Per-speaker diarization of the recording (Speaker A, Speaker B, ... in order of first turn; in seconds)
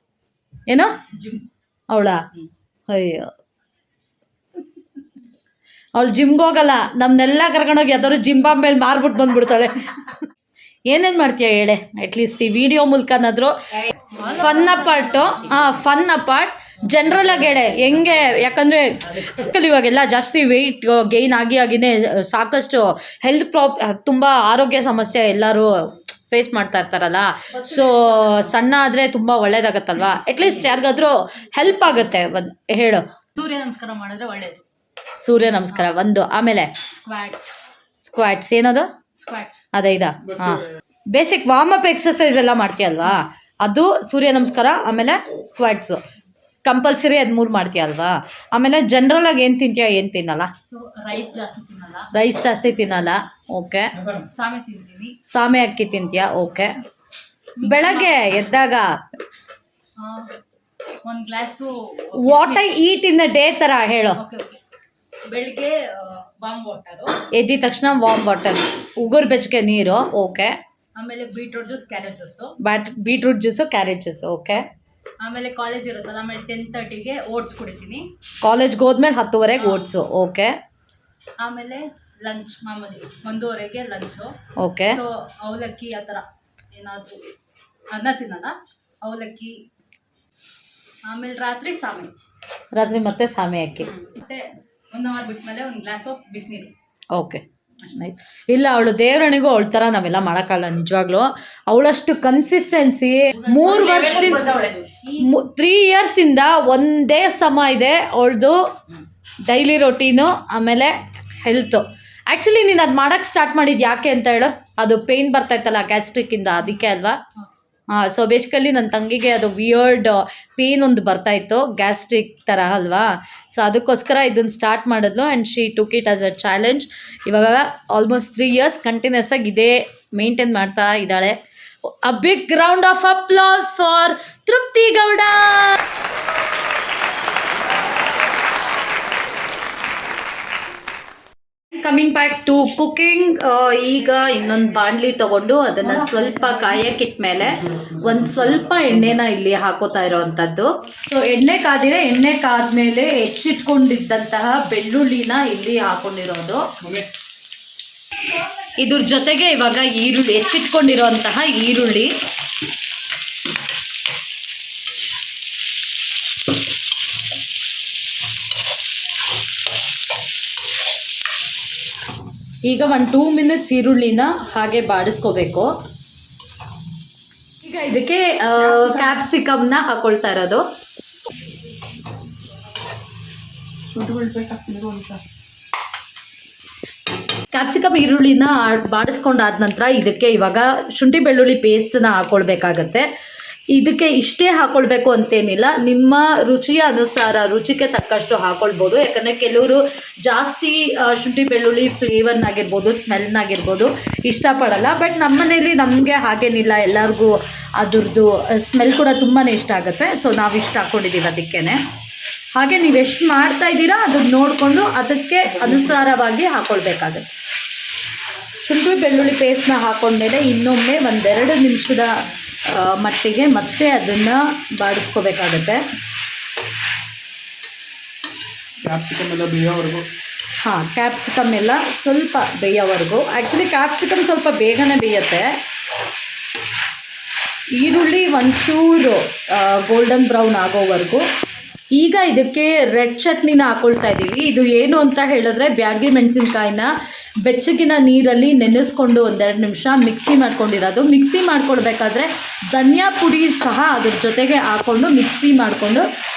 Speaker A: 0.7-0.9, 1.9-2.2, 2.9-3.3, 6.0-10.1, 10.9-13.5, 14.2-33.0, 35.2-36.7, 38.0-38.9, 39.7-40.6, 41.1-46.0, 46.6-50.5, 52.1-53.9, 55.3-56.7, 57.6-59.0, 62.1-64.2, 67.3-70.5, 72.6-74.6, 78.4-80.5, 84.6-85.0, 92.7-93.9, 97.1-104.5, 105.2-108.6, 109.5-117.2, 118.0-135.8, 141.7-156.6, 158.8-162.1, 172.6-175.7, 177.6-180.6, 187.5-193.1, 193.7-211.8, 212.6-217.2, 218.6-222.1, 222.7-225.8, 230.6-235.6, 237.8-241.2, 241.9-246.9, 247.4-256.0
Speaker B: 14.1-15.5, 27.5-28.6, 30.3-30.9, 31.6-32.0, 33.4-34.6, 37.0-37.6, 39.2-39.6, 50.7-52.1, 54.2-55.2, 57.6-58.3, 60.0-60.3, 61.0-62.6, 64.2-64.6, 65.3-67.2, 71.0-72.6, 75.2-78.1, 81.4-84.3, 84.9-87.2, 87.9-89.6, 91.0-92.1, 93.9-96.7, 103.4-105.3, 145.8-146.8
Speaker C: 40.2-40.7, 147.4-149.2, 156.8-157.1, 228.8-230.1